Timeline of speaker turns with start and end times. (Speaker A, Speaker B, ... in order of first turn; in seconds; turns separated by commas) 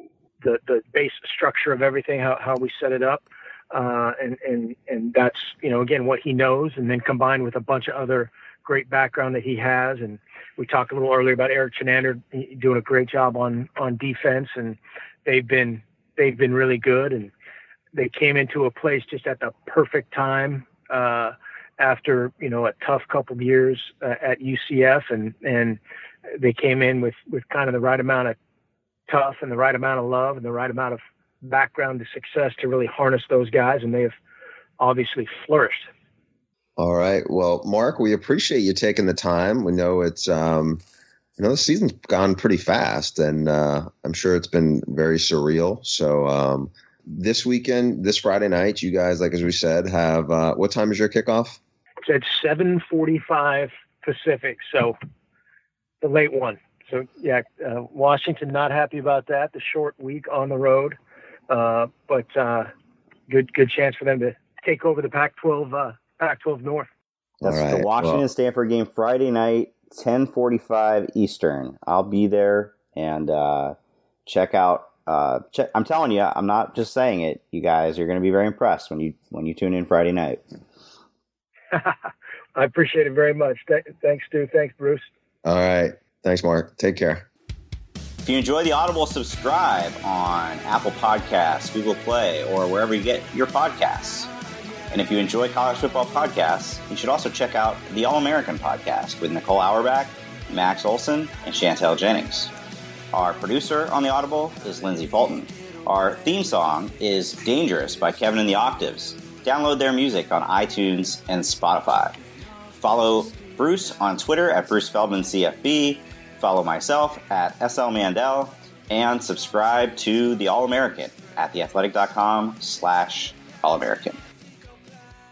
Speaker A: 0.4-17.3, Speaker A: 17.9-25.8, Speaker A: 26.4-28.4, Speaker A: 29.1-34.1, Speaker A: 34.8-35.9, Speaker B: 36.8-40.8, Speaker B: 41.4-51.6, Speaker A: 52.0-55.0, Speaker A: 56.0-61.0, Speaker A: 61.5-62.7, Speaker A: 63.3-66.9, Speaker B: 67.4-68.3, Speaker C: 67.4-80.4, Speaker A: 82.5-85.1, Speaker B: 85.4-87.3, Speaker C: 88.2-94.3, Speaker C: 94.9-102.5, Speaker C: 103.1-112.2, Speaker C: 112.7-124.2